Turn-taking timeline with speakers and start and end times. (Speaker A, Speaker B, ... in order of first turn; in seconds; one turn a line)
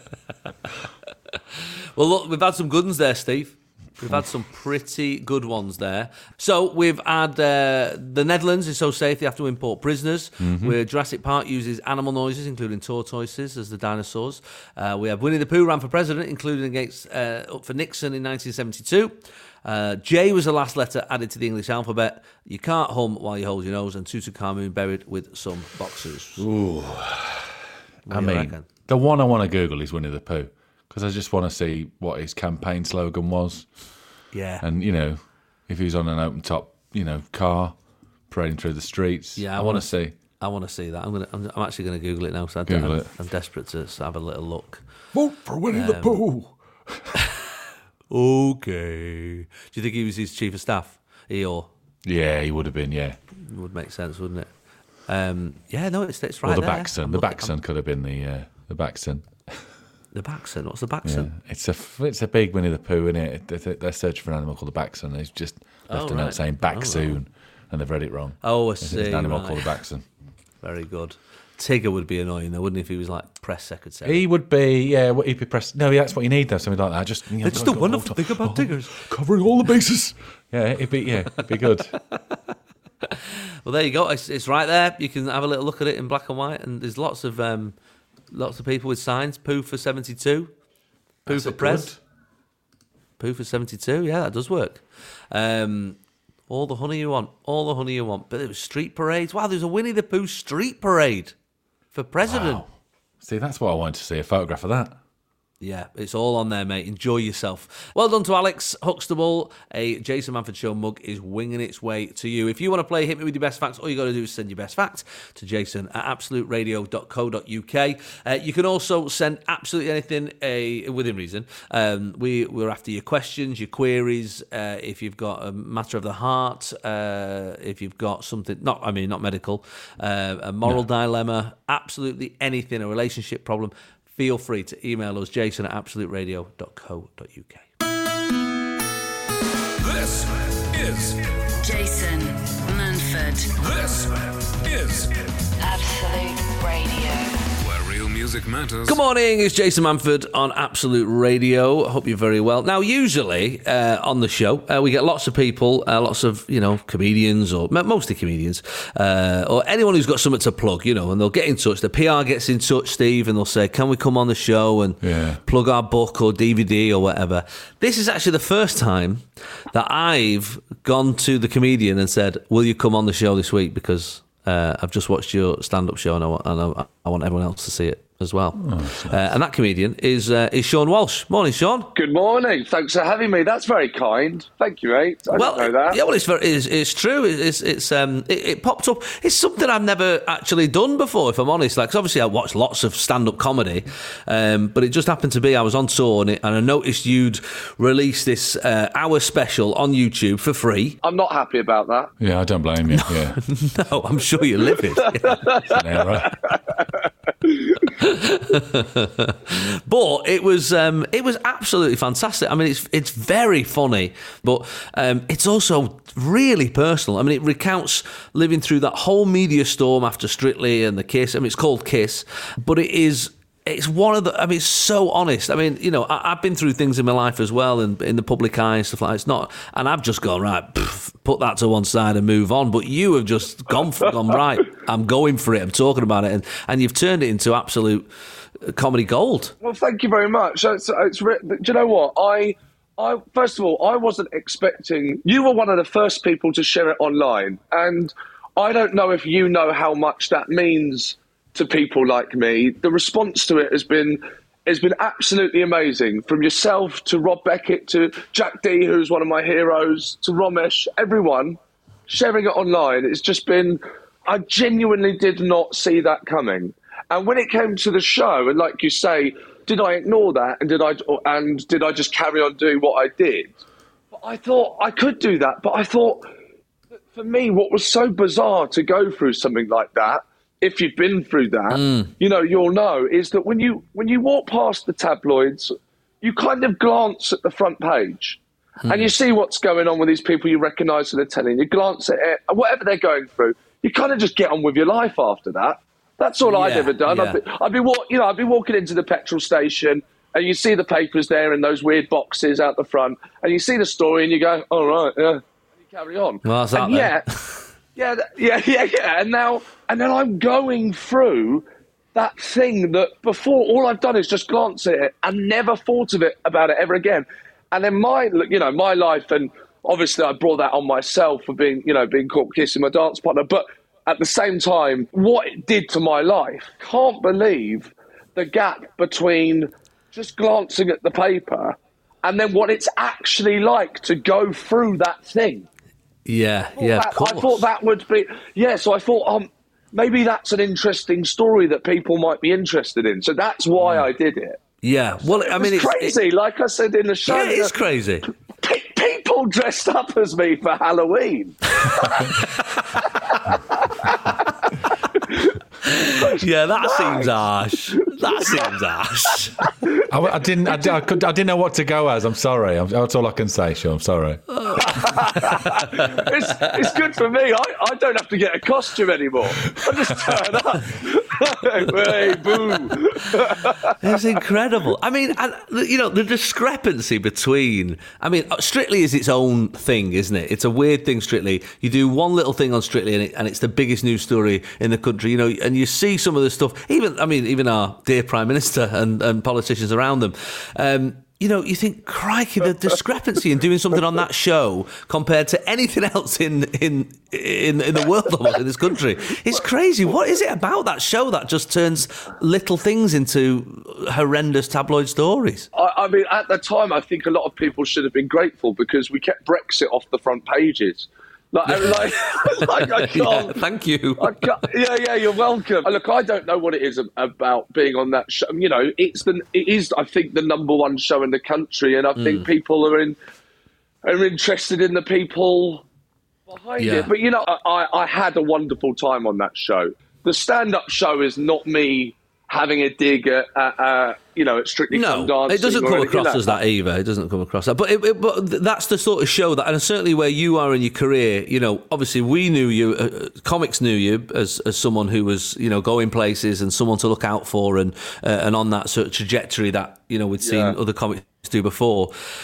Speaker A: 1.3-26.4
Speaker B: 10.4-10.8
Speaker B: 26.4-27.6
Speaker A: 28.1-28.7
Speaker B: 28.1-33.8
Speaker A: 34.3-34.6
Speaker B: 34.6-37.8
Speaker B: 38.3-40.1
Speaker A: 39.4-44.8
Speaker B: 42.7-43.1
Speaker B: 45.1-47.1
Speaker A: 45.7-46.2
Speaker A: 48.1-51.7
Speaker B: 52.0-53.2
Speaker A: 53.3-54.5
Speaker A: 55.1-57.5
Speaker B: 56.4-59.7
Speaker A: 60.1-61.3
Speaker B: 61.0-70.0
Speaker A: 65.9-67.2
Speaker A: 68.4-69.8
Speaker A: 70.6-74.2
Speaker B: 74.0-81.9
Speaker A: 77.4-79.0
Speaker A: 83.0-87.7
Speaker A: 88.3-90.5
Speaker A: 91.2-91.9
Speaker B: 91.2-92.0
Speaker A: 93.2-101.3
Speaker A: 101.9-102.6
Speaker B: 102.2-102.7
Speaker B: 103.2-105.0
Speaker A: 105.6-137.7
Speaker C: 139.8-141.4
Speaker D: 141.6-143.6
Speaker C: 143.6-145.4
Speaker D: 145.6-147.4
Speaker C: 147.6-149.0
Speaker A: 148.9-181.9
Speaker B: 165.0-165.4
Speaker B: 178.6-179.3
Speaker E: 181.9-186.0
Speaker A: 185.3-201.0
Speaker E: 201.0-202.1
Speaker B: 202.2-203.9
Speaker A: 202.9-205.5
Speaker E: 205.2-207.8
Speaker B: 205.7-206.4
Speaker A: 208.0-238.1
Speaker A: 238.6-239.5
Speaker E: 239.6-273.6
Speaker E: 274.1-276.3
Speaker E: 277.1-307.2
Speaker A: 281.7-282.1
Speaker A: 288.8-289.1
Speaker A: 296.4-297.4
Speaker A: 306.4-307.7
Speaker E: 307.9-335.7
Speaker A: 336.2-337.7
Speaker E: 336.8-344.6
Speaker A: 344.8-346.2
Speaker E: 345.2-347.8
Speaker A: 347.3-348.3
Speaker E: 348.6-352.4
Speaker A: 351.8-353.2
Speaker E: 353.8-354.4
Speaker A: 355.8-359.7
Speaker E: 356.1-357.4
Speaker E: 358.0-358.7
Speaker B: 360.1-364.5
Speaker A: 364.5-366.7
Speaker E: 364.8-374.4
Speaker B: 369.6-370.4
Speaker A: 372.2-405.7
Speaker E: 405.7-413.6
Speaker A: 411.6-414.6
Speaker E: 414.2-423.2
Speaker A: 422.1-422.4
Speaker E: 424.0-425.8
Speaker E: 426.5-436.6
Speaker A: 426.8-427.1
Speaker A: 434.9-452.1
Speaker E: 450.4-450.8